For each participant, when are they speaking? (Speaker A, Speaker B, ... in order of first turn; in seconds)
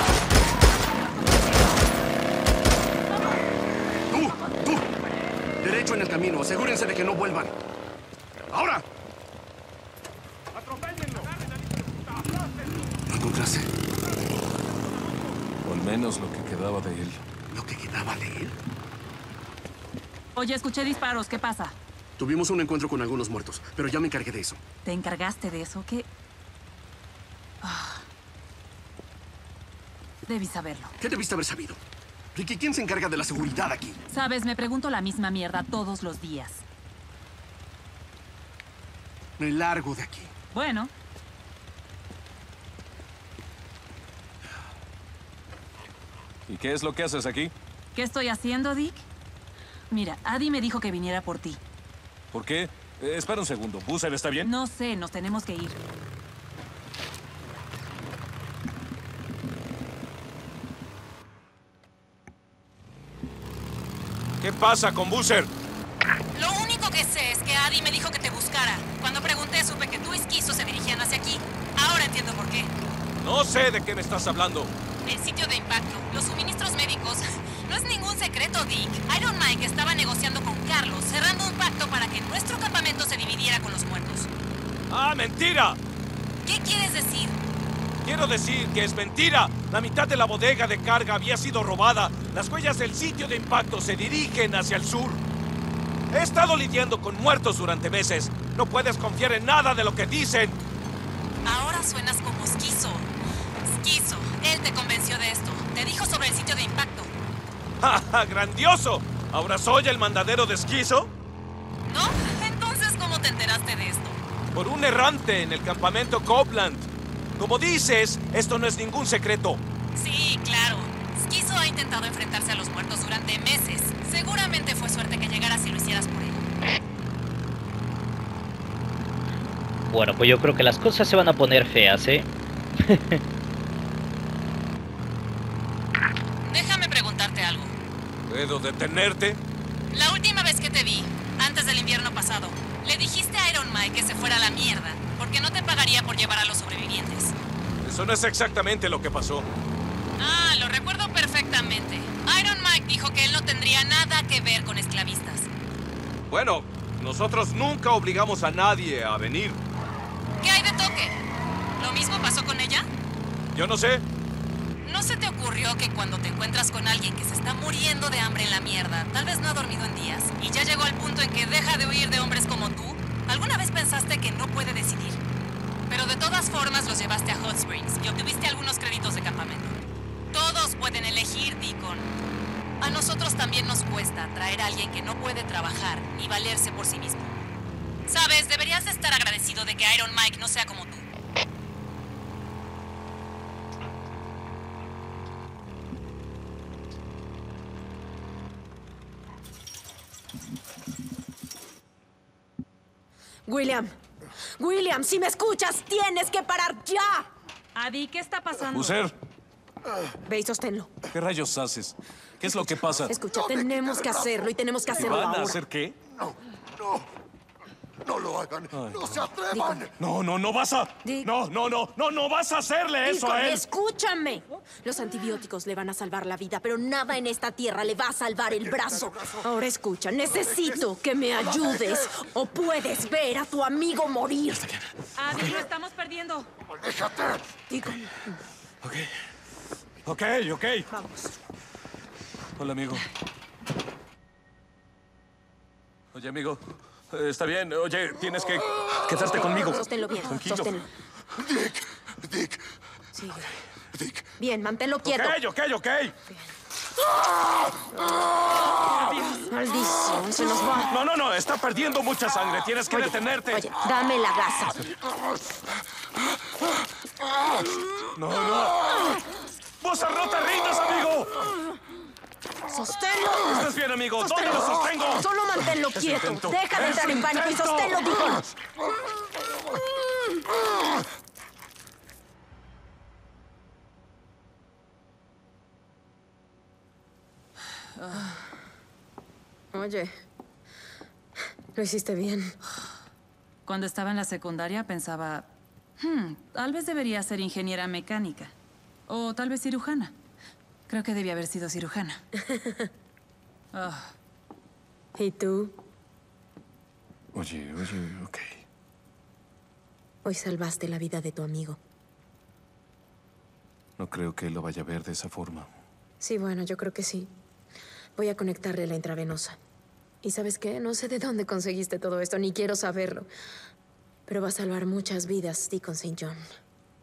Speaker A: 4.1-4.8, 5.6-7.5, 8.5-8.8, 13.1-13.7, 17.5-18.6, 22.2-24.6, 31.0-31.8, 32.3-34.0, 39.4-40.3
Speaker B: 15.6-17.2, 307.3-308.6, 314.0-315.7
Speaker C: 20.3-21.8, 24.8-26.1, 27.6-28.1, 30.2-30.9, 34.1-36.6, 40.5-40.9, 47.9-49.0, 49.9-51.6, 54.4-55.8, 207.7-209.0, 235.1-236.5, 288.0-288.3, 293.6-298.5, 299.1-300.1, 300.9-302.2, 303.7-304.1
Speaker D: 46.5-47.5, 52.3-54.5, 64.4-65.5, 73.2-74.7, 84.9-85.8, 88.0-95.2, 96.1-100.6, 107.8-111.1, 114.5-119.6, 138.3-139.4, 147.8-149.4, 156.3-159.6, 163.5-164.0, 208.7-209.1, 211.1-213.1, 214.9-215.9, 218.7-219.3, 220.0-223.7, 240.0-240.9, 242.6-243.1, 246.1-250.8, 255.0-256.1, 260.9-263.7, 268.1-269.0, 269.8-271.4, 273.3-275.3, 275.9-278.2
Speaker E: 66.3-72.7, 75.0-84.3, 86.4-87.4, 101.4-103.1, 103.6-107.1, 111.8-114.2, 119.9-126.5, 136.4-137.7, 139.9-147.3, 150.2-155.5, 160.4-161.2, 161.8-162.8, 164.8-175.2, 175.9-179.8, 180.3-182.1, 182.8-187.3, 188.1-191.1
Speaker F: 129.9-133.2
Speaker G: 203.4-203.9, 204.6-207.3, 210.3-210.9, 212.6-215.6, 219.3-219.9, 221.0-221.3, 223.0-234.7, 237.7-238.0, 249.2-250.9, 253.1-253.5, 254.4-255.4, 257.9-258.3, 259.4-260.9, 263.5-264.9, 272.7-273.7, 274.2-278.4, 289.7-290.1, 291.7-292.6, 302.5-302.9, 305.1-305.7, 310.2-311.8, 316.2-317.3, 318.2-319.6, 320.2-323.3, 324.3-326.4